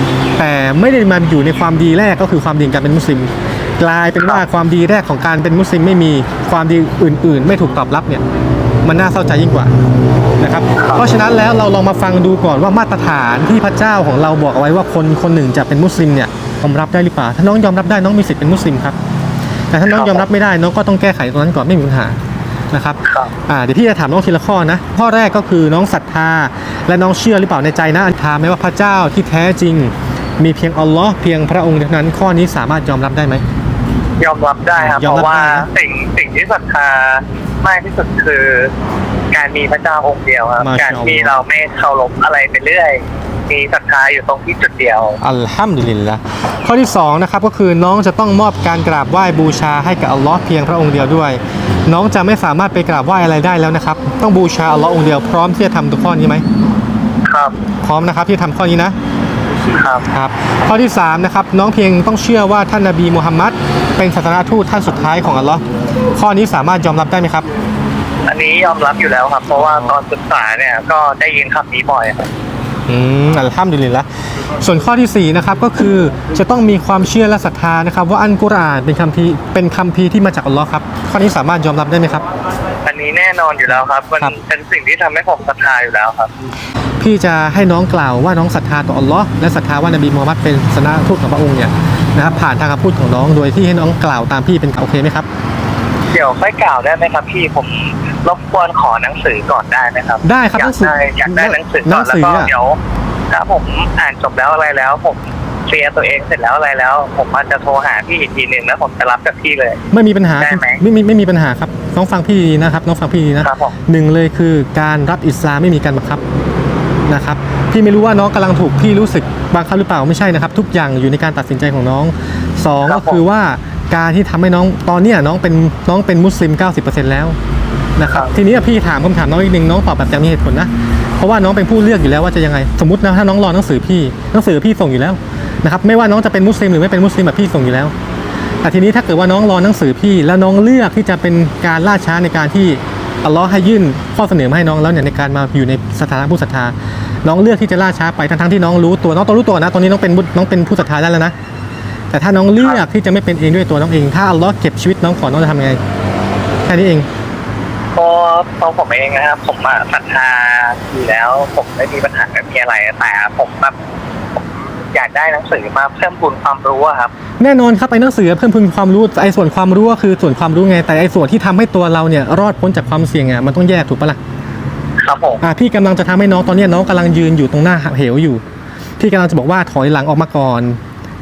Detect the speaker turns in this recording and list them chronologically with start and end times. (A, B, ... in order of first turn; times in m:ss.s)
0:00.4-0:08.2 A
0:08.8-0:09.7 A
0:10.4-0:19.0 A
0:10.8-0:11.0 B
0:19.7-0:22.2 A
0:19.9-0:20.3 B
0:22.7-0:33.4 A
0:23.0-0:23.3 B
0:34.2-0:38.7 B
0:34.8-0:35.7 A
0:39.3-0:45.2 B
0:40.6-0:41.4 A
0:45.2-0:56.4 A
0:57.3-0:57.6 B
0:57.8-0:59.0 A
0:59.8-1:00.0 B
1:00.1-1:07.4 A
1:08.3-1:12.3 B
1:09.6-1:09.9 A
1:12.9-1:14.1 A
1:14.6-1:22.3 A
1:22.8-1:26.3 B
1:23.7-1:24.4 A
1:27.0-1:35.3 A
1:36.1-1:42.8 B
1:40.2-1:42.5 A
1:43.3-1:49.8 B
1:49.9-1:56.2 A
1:50.4-1:50.8 B
1:53.4-1:53.8 B
1:57.1-2:07.4 A
2:02.8-2:03.2 B
2:08.0-2:17.9 A
2:08.1-2:08.3 B
2:18.6-2:31.3 A
2:32.1-2:35.8 A
2:36.7-2:37.1 A
2:38.0-2:43.8 B
2:44.9-2:47.1 B
2:47.4-2:54.2 A
2:55.0-2:55.4 B
2:55.4-2:58.4 A
2:59.0-3:00.8 A